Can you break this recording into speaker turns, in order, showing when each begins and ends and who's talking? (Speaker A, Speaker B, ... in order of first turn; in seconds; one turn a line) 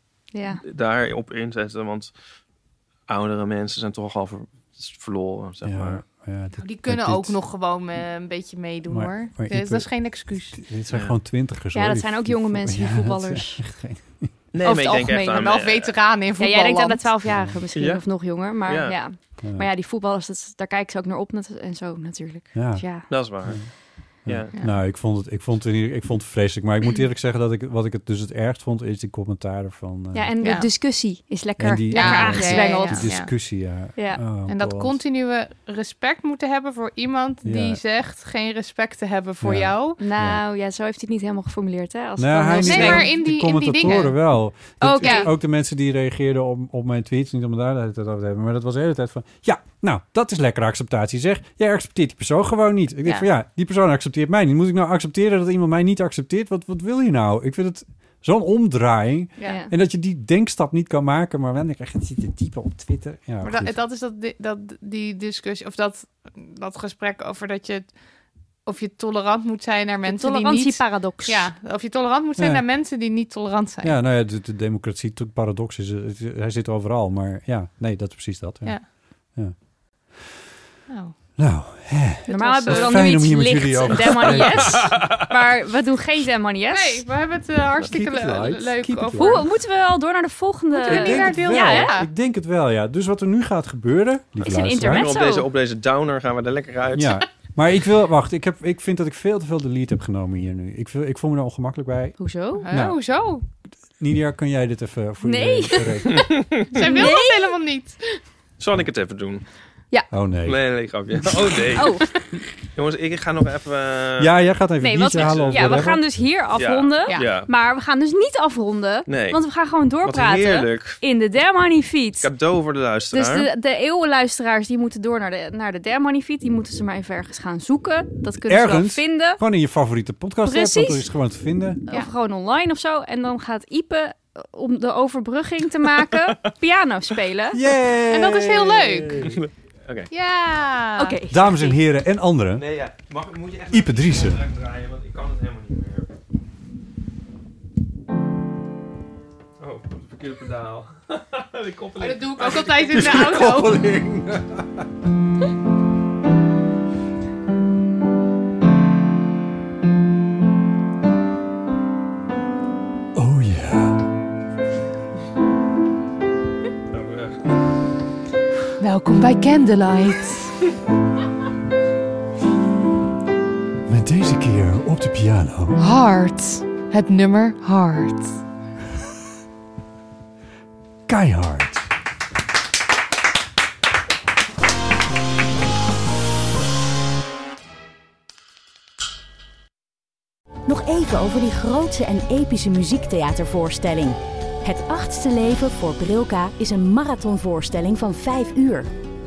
Speaker A: 0.3-0.6
Speaker B: 0.6-2.1
Speaker B: 3.1-6.0
Speaker C: 5.6-7.4
Speaker D: 6.5-10.6
Speaker C: 8.9-9.9
Speaker C: 10.5-14.3
Speaker A: 11.7-13.6
Speaker B: 14.5-15.9
Speaker A: 14.6-15.4
Speaker D: 15.3-17.1
Speaker A: 16.4-23.1
Speaker C: 17.2-17.6
Speaker B: 17.7-18.0
Speaker B: 18.6-18.9
Speaker C: 19.4-19.7
Speaker C: 22.5-23.7
Speaker B: 23.1-23.6
Speaker C: 24.2-30.4
Speaker B: 24.2-24.5
Speaker A: 30.1-33.2
Speaker D: 30.4-30.7
Speaker C: 31.6-35.0
Speaker D: 31.9-33.3
Speaker A: 34.0-34.2
Speaker D: 34.5-40.0
Speaker C: 37.4-37.8
Speaker C: 39.4-40.4
Speaker A: 40.0-43.1
Speaker C: 42.2-63.8
Speaker D: 42.6-44.2
Speaker A: 44.8-45.3
Speaker D: 45.0-45.3
Speaker D: 59.4-59.6
Speaker A: 59.4-59.7
Speaker D: 63.4-67.9
Speaker D: 68.7-74.0
Speaker A: 70.0-71.5
Speaker C: 72.4-72.6
Speaker C: 73.8-78.8
Speaker D: 80.9-81.1
Speaker C: 81.4-85.0
Speaker A: 82.3-87.0
Speaker D: 82.6-83.0
Speaker B: 84.3-85.2
Speaker D: 86.7-89.5
Speaker C: 87.8-89.4
Speaker A: 89.1-92.0
Speaker D: 90.7-92.1
Speaker C: 90.8-95.2
Speaker A: 94.4-95.5
Speaker B: 94.5-97.2
Speaker C: 96.9-102.2
Speaker A: 102.2-102.7
Speaker D: 102.6-103.4
Speaker C: 102.7-103.0
Speaker C: 104.0-106.4
Speaker A: 105.2-107.5
Speaker B: 106.1-106.8
Speaker D: 106.7-108.0
Speaker B: 108.6-109.4
Speaker C: 110.1-110.7
Speaker B: 110.4-112.0
Speaker A: 111.7-112.1
Speaker B: 112.6-114.3
Speaker C: 114.2-116.0
Speaker A: 114.8-122.3
Speaker B: 115.1-115.9
Speaker B: 116.6-117.5
Speaker D: 117.0-117.4
Speaker B: 119.1-119.4
Speaker B: 120.0-121.0
Speaker B: 122.2-123.5
Speaker A: 123.1-129.4
Speaker C: 128.5-131.8
Speaker A: 130.4-131.1
Speaker A: 131.9-137.6
Speaker C: 137.5-139.4
Speaker D: 138.1-139.2
Speaker B: 139.2-140.1
Speaker D: 140.1-141.2
Speaker A: 141.0-141.8
Speaker C: 141.3-142.6
Speaker B: 142.5-146.1
Speaker C: 143.7-144.4
Speaker B: 149.6-153.5
Speaker D: 152.0-153.8
Speaker C: 152.9-154.8
Speaker C: 163.1-164.0
Speaker B: 166.9-167.4
Speaker D: 168.8-170.5
Speaker C: 173.8-175.8
Speaker D: 175.8-178.4
Speaker C: 181.1-181.9
Speaker E: 190.6-198.9